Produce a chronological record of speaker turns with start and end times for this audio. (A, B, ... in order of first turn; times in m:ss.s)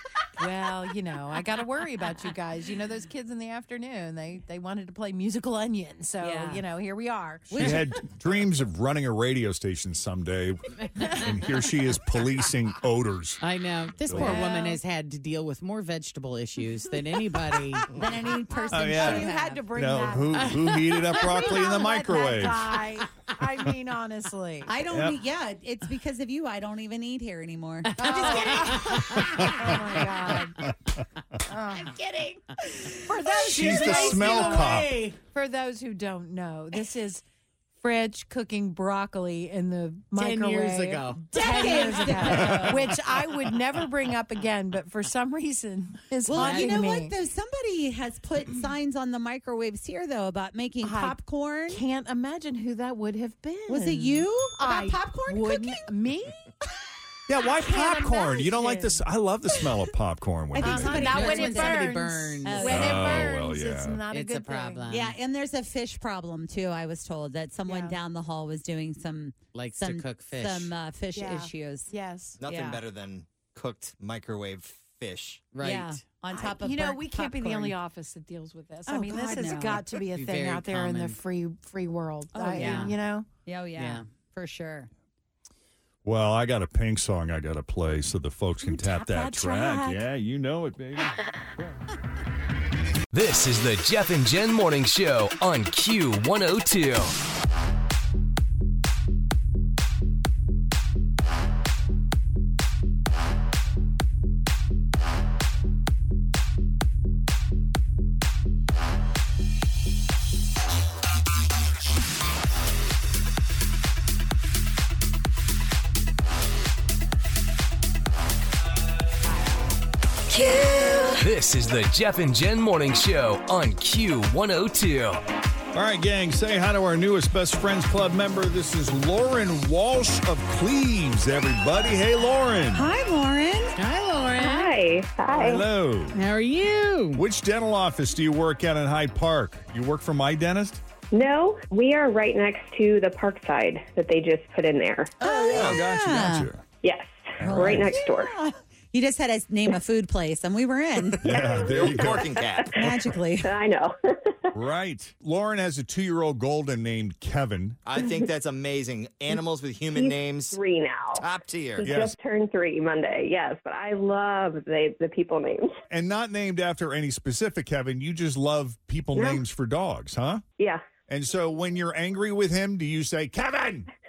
0:00.4-0:07.8 A
0:06.2-0:06.6 B
0:07.5-0:08.0 B
0:07.5-0:13.4 C
0:10.9-0:11.2 D
0:13.4-0:17.9 D
0:14.0-0:14.4 C
0:14.1-0:14.8 B
0:14.3-0:14.6 A
0:17.9-0:19.7 B
0:18.7-0:22.9 C
0:18.8-0:24.7 A
0:20.3-0:21.4 D
0:24.6-0:30.0 B
0:24.9-0:25.2 C
0:27.9-0:29.8 D
0:28.0-0:30.6 A
0:29.1-0:29.8 C
0:30.6-0:31.0 C
0:31.5-0:32.0 A
0:31.7-0:33.5 B
0:33.0-0:34.8 A
0:33.4-0:35.0 C
0:33.5-0:35.2 D
0:35.3-0:37.2 A
0:37.8-0:47.2 A
0:40.1-0:42.8 D
0:41.3-0:42.9 B
0:46.2-0:51.8 B
0:46.3-0:46.9 D
0:50.8-0:56.4 A
0:53.7-0:55.8 B
0:57.3-1:01.1 C
0:57.5-0:59.0 A
1:00.5-1:01.9 B
1:00.6-1:04.9 A
1:00.8-1:03.3 D
1:02.4-1:03.0 B
1:02.7-1:04.0 C
1:04.1-1:05.2 D
1:04.9-1:12.8 B
1:07.6-1:08.0 A
1:09.5-1:10.7 D
1:11.1-1:12.4 A
1:12.4-1:15.4 E
1:15.5-1:16.0 D
1:15.6-1:17.8 B
1:16.3-1:23.3 A
1:18.9-1:19.8 B
1:20.1-1:21.2 D
1:22.3-1:24.9 B
1:22.5-1:23.0 D
1:23.8-1:24.0 D
1:26.0-1:31.7 C
1:28.6-1:30.0 A
1:33.1-1:37.2 F
2:01.2-2:05.2 F
2:05.7-2:12.9 C
2:12.7-2:13.8 B
2:13.8-2:14.8 D
2:14.4-2:15.6 G
2:15.3-2:16.2 C
2:16.1-2:17.2 D
2:17.1-2:20.8 C
2:21.1-2:25.1 G
2:25.2-2:26.5 B
2:25.2-2:26.6 C
2:26.8-2:28.3 G
2:27.4-2:28.0 C
2:27.4-2:31.4 B
2:31.2-2:32.3 C
2:31.4-2:34.4 G
2:31.5-2:32.8 E
2:32.7-2:33.5 B
2:34.5-2:37.8 C
2:37.8-2:40.6 E
2:39.9-2:41.2 G
2:41.2-2:41.9 E
2:41.8-2:45.7 G
2:41.8-2:42.1 C
2:45.9-2:50.4 C
2:49.1-2:49.4 G
2:51.1-2:53.9 C